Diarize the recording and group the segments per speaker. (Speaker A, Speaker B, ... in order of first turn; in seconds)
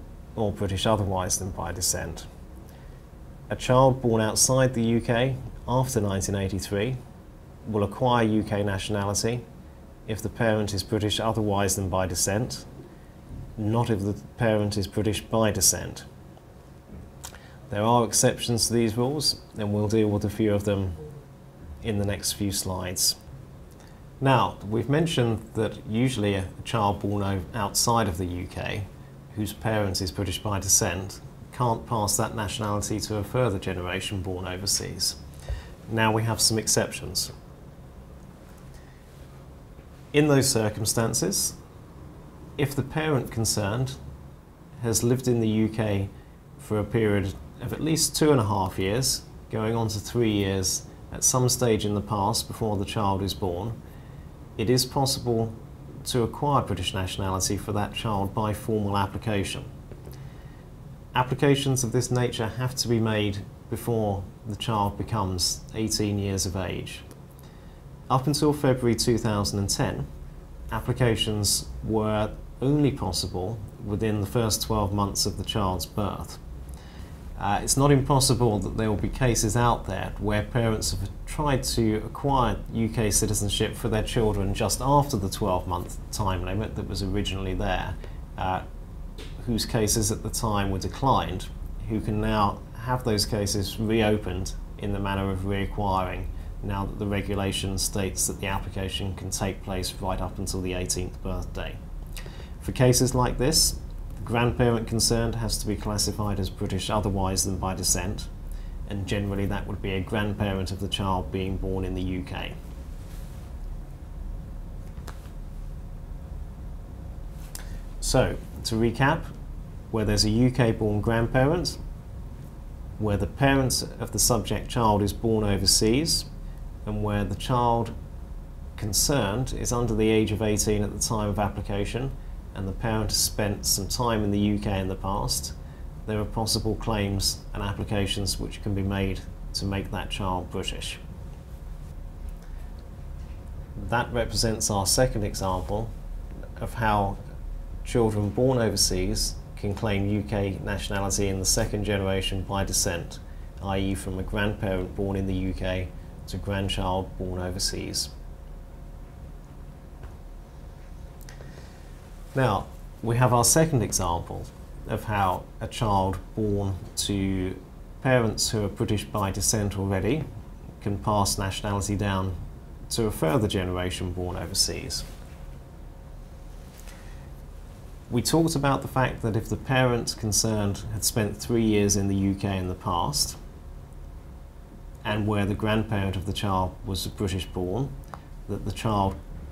Speaker A: 0.4-2.3, 3.5-7.0, 7.7-9.4, 10.1-12.7, 13.6-16.1, 17.7-21.0, 21.8-23.2, 24.2-35.2, 35.9-37.3, 40.1-41.6, 42.6-44.0, 44.8-53.8, 54.6-59.7, 61.1-67.0, 68.1-70.1, 70.7-76.4, 77.4-88.7, 89.4-101.8, 102.6-108.3, 108.9-112.5, 118.0-119.3, 119.9-121.8, 123.0-126.3, 126.8-127.9, 128.8-135.6, 136.1-141.0, 143.8-145.9, 146.6-147.2, 147.8-158.1, 162.3-170.2, 170.8-172.3, 172.9-175.1, 178.1-183.4, 185.0-187.9, 188.5-189.2